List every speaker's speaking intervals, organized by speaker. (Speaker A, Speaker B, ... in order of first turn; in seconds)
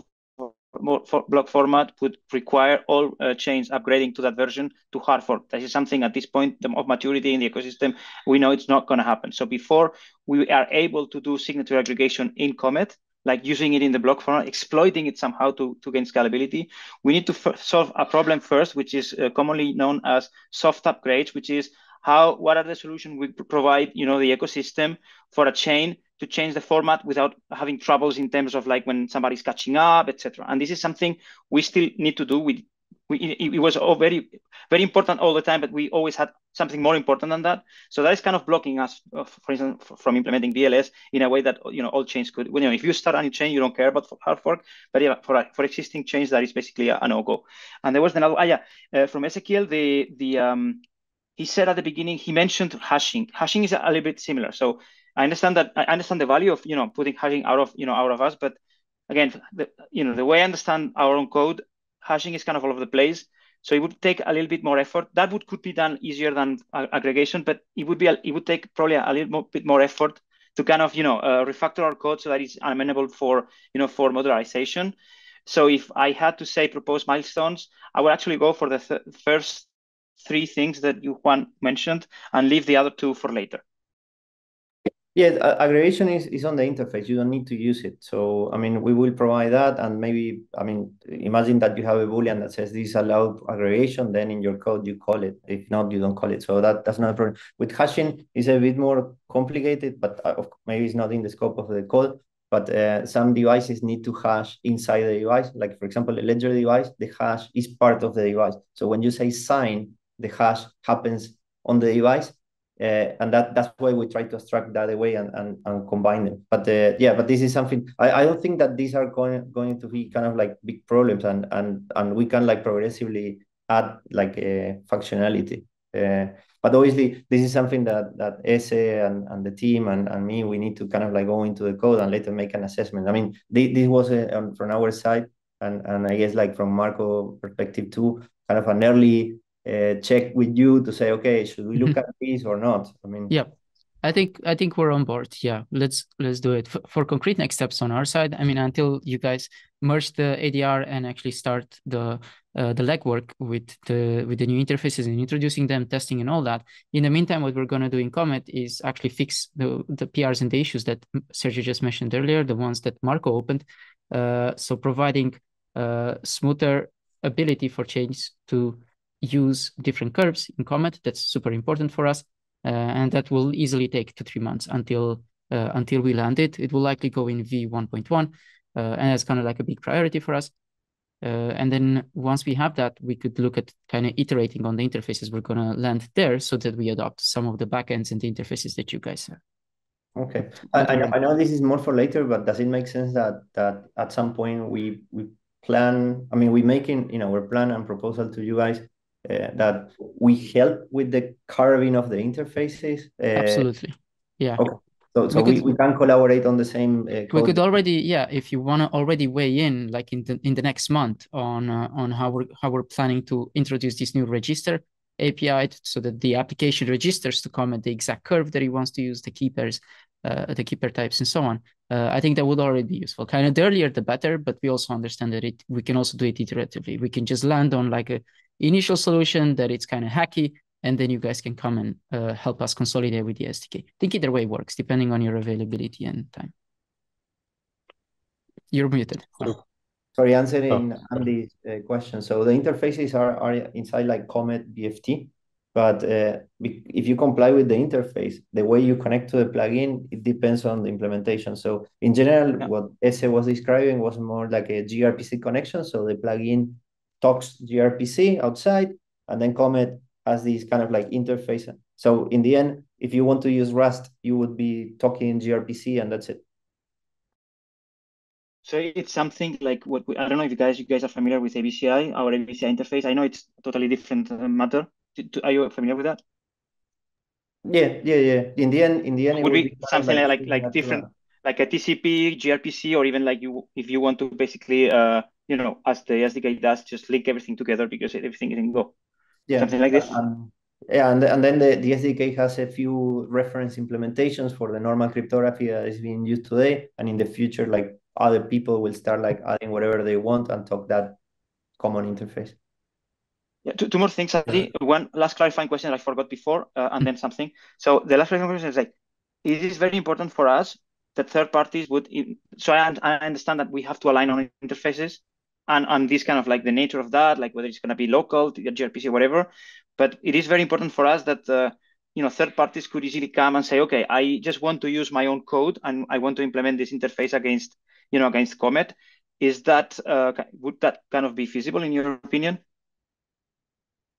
Speaker A: 0.4-50.8, 51.4-58.6, 59.1-75.0, 75.5-79.7, 80.2-83.6, 268.7-276.2, 279.3-288.9, 289.6-290.2, 303.6-308.9, 309.4-332.6
Speaker B: 85.2-143.3, 190.2-203.7, 204.6-207.6, 240.2-266.4, 277.6-281.1, 289.5-301.2, 301.8-302.6
Speaker C: 143.3-180.5, 181.2-189.4, 190.7-191.1, 203.3-204.7, 205.3-205.8, 207.3-236.5, 238.7-239.6